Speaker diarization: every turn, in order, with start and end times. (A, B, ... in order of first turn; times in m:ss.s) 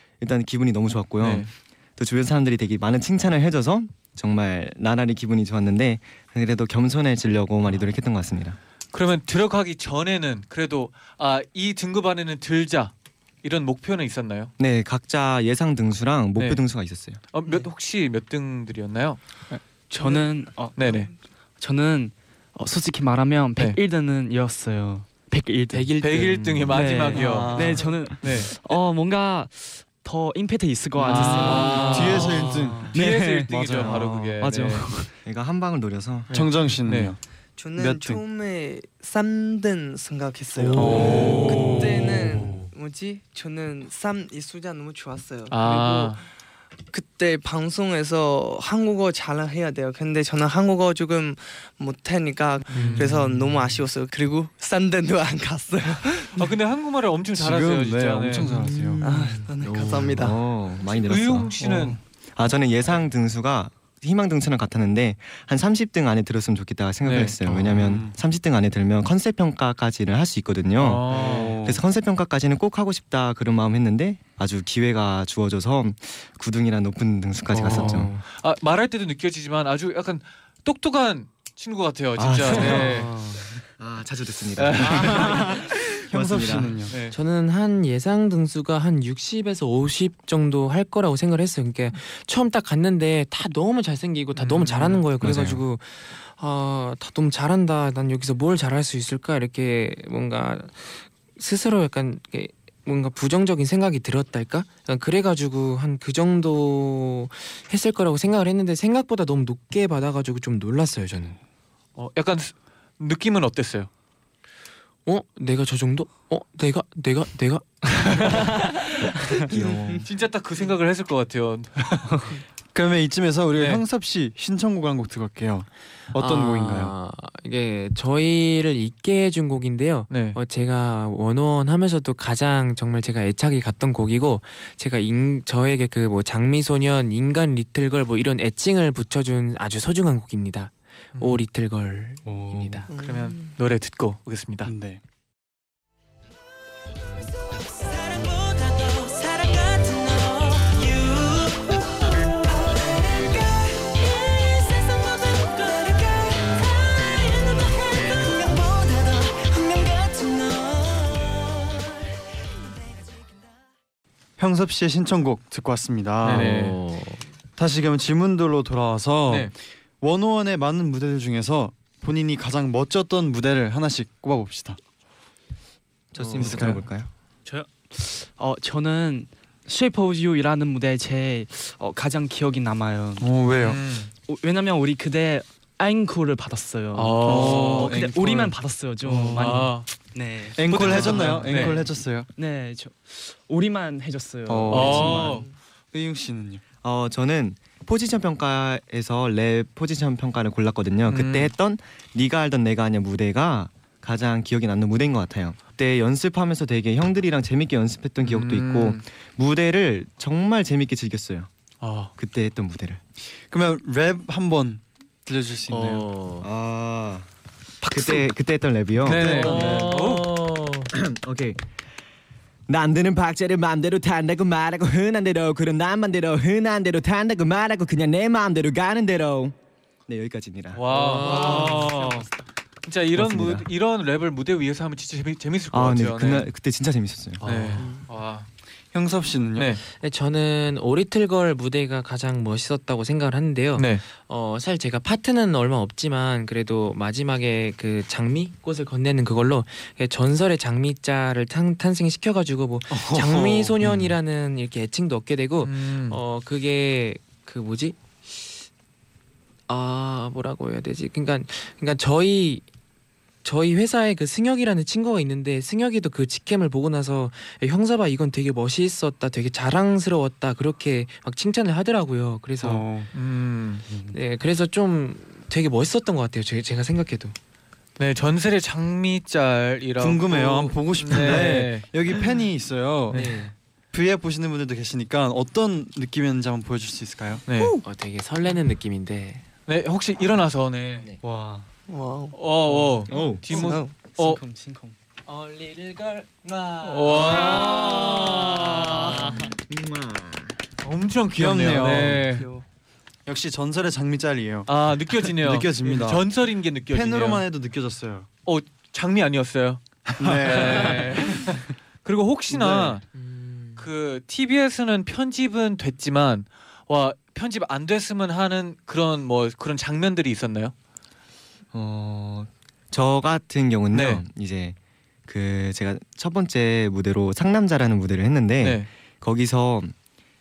0:00.2-0:08.6 A
0:01.2-0:01.5 B
0:08.9-0:14.5 B
0:14.6-0:17.2 A
0:16.4-0:16.6 B
0:17.3-0:19.6 B
0:19.9-0:26.0 C
0:20.7-0:21.1 B
0:25.7-0:26.5 D
0:26.0-0:28.5 B
0:26.4-0:26.7 A
0:26.7-0:35.1 C
0:27.1-0:28.0 E
0:31.0-0:34.0 E
0:31.0-0:34.9 B
0:31.1-0:32.4 D
0:35.2-0:36.3 A
0:36.3-0:37.1 B
0:36.3-0:37.2 E
0:37.6-0:46.2 F
0:37.7-0:38.2 E
0:40.7-0:42.3 E
0:40.8-0:41.9 B
0:45.5-0:46.2 B
0:46.9-0:56.4 F
0:52.7-0:53.1 D
0:52.7-0:53.2 B
0:56.3-0:58.5 B
0:57.3-0:59.0 E
0:58.4-0:59.4 D
0:59.0-1:00.4 F
0:59.1-0:59.6 C
0:59.7-1:01.5 A
1:00.8-1:02.0 B
1:01.6-1:01.9 E
1:02.4-1:18.1 A
1:07.0-1:07.4 B
1:07.6-1:08.1 E
1:10.8-1:11.6 B
1:11.1-1:11.8 E
1:17.5-1:18.2 D
1:17.6-1:23.1 B
1:22.2-1:22.9 A
1:22.6-1:23.4 C
1:22.6-1:23.4 D
1:23.8-1:26.8 A
1:24.6-1:25.5 B
1:24.8-1:26.9 E
1:26.9-1:27.2 B
1:27.1-1:51.4 D
1:34.3-1:35.0 B
1:35.2-1:35.6 A
1:52.0-1:53.9 B
1:55.0-1:58.7 D
1:59.5-2:00.0 A
1:59.5-2:00.0 F
2:00.0-2:02.1 B
2:02.7-2:06.9 E
2:03.5-2:03.8 B
2:06.1-2:22.9 D
2:10.1-2:10.4 B
2:21.2-2:21.4 B
2:22.3-2:22.8 E
2:22.9-2:23.4 F
2:22.9-2:24.7 B
2:24.6-2:25.0 E
2:27.6-2:42.0 G
2:42.9-2:43.2 G
2:44.4-2:46.6 E
2:46.2-2:46.8 B
2:46.2-2:47.2 D
2:47.6-2:54.8 E
2:56.1-2:57.1 A
2:56.3-2:56.8 E
2:57.4-3:03.3 C
3:03.2-3:03.8 E
3:03.6-3:04.1 B
3:04.3-3:15.4 C
3:06.9-3:08.0 B
3:07.2-3:09.6 E
3:09.2-3:09.9 B
3:10.6-3:12.3 E
3:10.6-3:11.8 B
3:14.4-3:16.6 E
3:14.7-3:15.5 B
3:16.8-3:31.5 A
3:21.0-3:21.5 B
3:28.2-3:29.0 B
3:31.8-3:32.1 B
3:32.2-3:33.0 A
3:33.5-3:36.1 E
3:35.7-3:36.5 D
3:36.4-3:37.3 A
3:37.8-3:39.6 A
3:39.0-3:40.3 B
3:39.0-3:40.0 E
3:39.2-3:40.9 D
3:40.9-3:41.6 A
3:42.7-3:49.6 A
3:50.1-3:50.8 A
3:50.7-3:52.2 B
3:50.9-3:52.1 D
3:51.3-3:51.8 E
3:52.8-3:56.5 B
3:53.1-3:53.7 A
3:55.7-3:57.6 A
3:57.4-3:58.5 B
3:57.5-3:57.8 C
3:58.9-3:59.8 E
3:59.6-3:59.8 B
4:00.0-4:18.5 D
4:03.8-4:04.0 B
4:15.6-4:16.2 B
4:19.7-4:22.6 D
4:23.4-4:32.9 D
4:32.6-4:33.1 C
4:33.1-4:33.8 B
4:33.9-4:34.2 C
4:34.1-4:37.3 D
4:38.0-4:41.9 B
4:40.0-4:43.2 E
4:43.1-4:43.4 B
4:43.1-4:43.5 D
4:43.9-4:47.4 E
4:47.5-4:47.8 B
4:47.8-4:49.4 D
4:49.7-4:51.0 B
4:51.2-4:51.6 C
4:51.9-4:52.4 F
4:52.3-4:54.4 B
4:53.1-4:53.5 A
4:53.5-4:54.0 F
4:53.6-4:54.9 C
4:56.4-4:58.3 F
4:56.8-4:59.4 B
4:57.3-4:57.9 D
4:59.5-5:00.6 A
5:00.8-5:02.5 B
5:01.3-5:02.3 E
5:02.4-5:02.6 F
5:03.2-5:04.7 E
5:04.7-5:07.4 B
5:05.2-5:06.2 E
5:06.9-5:08.3 E
5:08.4-5:13.0 B
5:10.2-5:11.4 E
5:12.6-5:12.9 E
5:13.1-5:13.9 D
5:13.8-5:20.7 B
5:21.7-5:29.9 A
5:23.9-5:24.2 B
5:28.6-5:28.9 B